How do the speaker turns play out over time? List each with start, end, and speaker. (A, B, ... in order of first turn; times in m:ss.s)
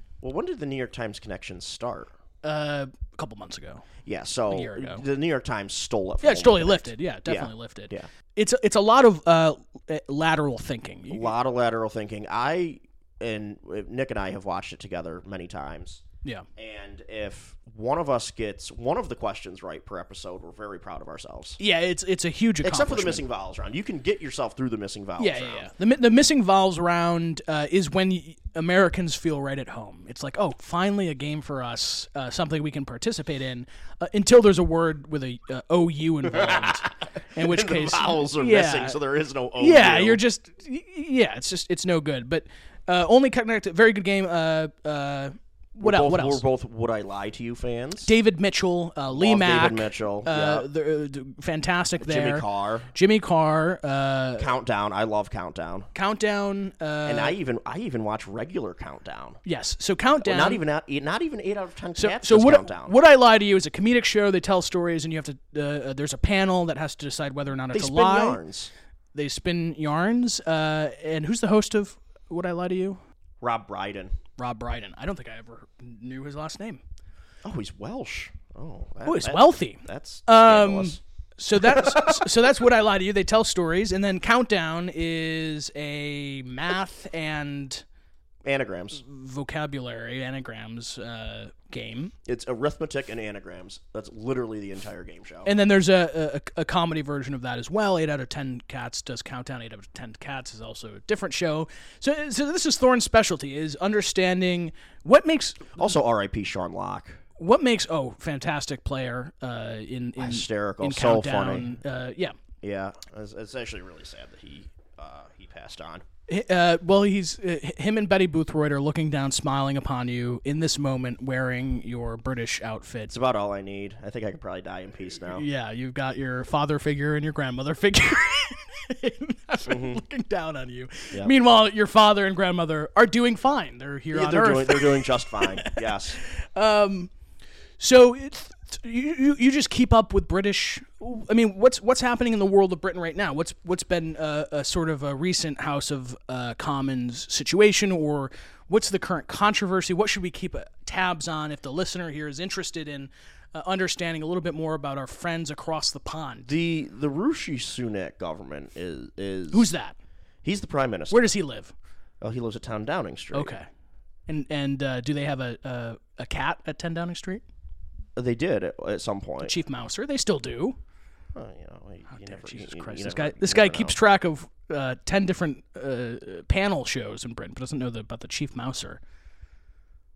0:00.2-0:02.1 A
0:02.4-0:03.9 B
0:04.0-0:08.1 A
0:04.5-0:05.0 B
0:06.2-0:11.3 B
0:11.1-0:16.0 A
0:16.6-0:21.6 A
0:21.6-0:23.2 B
0:22.6-0:25.7 A
0:25.2-0:39.0 B
0:36.3-0:40.2 A
0:39.6-0:46.4 B
0:45.8-0:48.1 A
0:48.0-0:54.5 B
0:49.1-0:50.7 A
0:52.0-0:52.9 A
0:54.4-0:55.9 A
0:55.9-0:57.3 B
0:57.0-0:59.4 A
0:59.4-1:00.6 B
1:00.2-1:02.9 A
1:02.0-1:08.4 B
1:07.7-1:08.7 A
1:09.1-1:13.0 B
1:13.4-1:14.1 A
1:14.4-1:16.8 B
1:17.4-1:21.0 A
1:19.0-1:27.8 B
1:21.6-1:22.3 A
1:28.4-1:29.0 A
1:28.9-1:32.1 B
1:32.2-1:35.5 A
1:35.4-1:45.8 B
1:45.8-1:47.2 A
1:47.4-1:52.4 B
1:50.2-1:51.8 A
1:52.6-1:56.0 A
1:56.3-2:03.1 B
2:03.1-2:05.4 A
2:05.3-2:17.1 B
2:09.7-2:10.0 A
2:14.1-2:16.2 A
2:17.8-2:36.5 B
2:36.4-2:39.7 A
2:39.5-2:40.0 B
2:40.4-2:41.3 A
2:41.1-2:41.7 B
2:42.2-2:43.5 A
2:43.3-2:43.7 B
2:44.3-2:47.4 B
2:48.2-2:49.6 A
2:49.4-2:50.8 B
2:51.3-2:54.0 A
2:52.1-2:59.0 B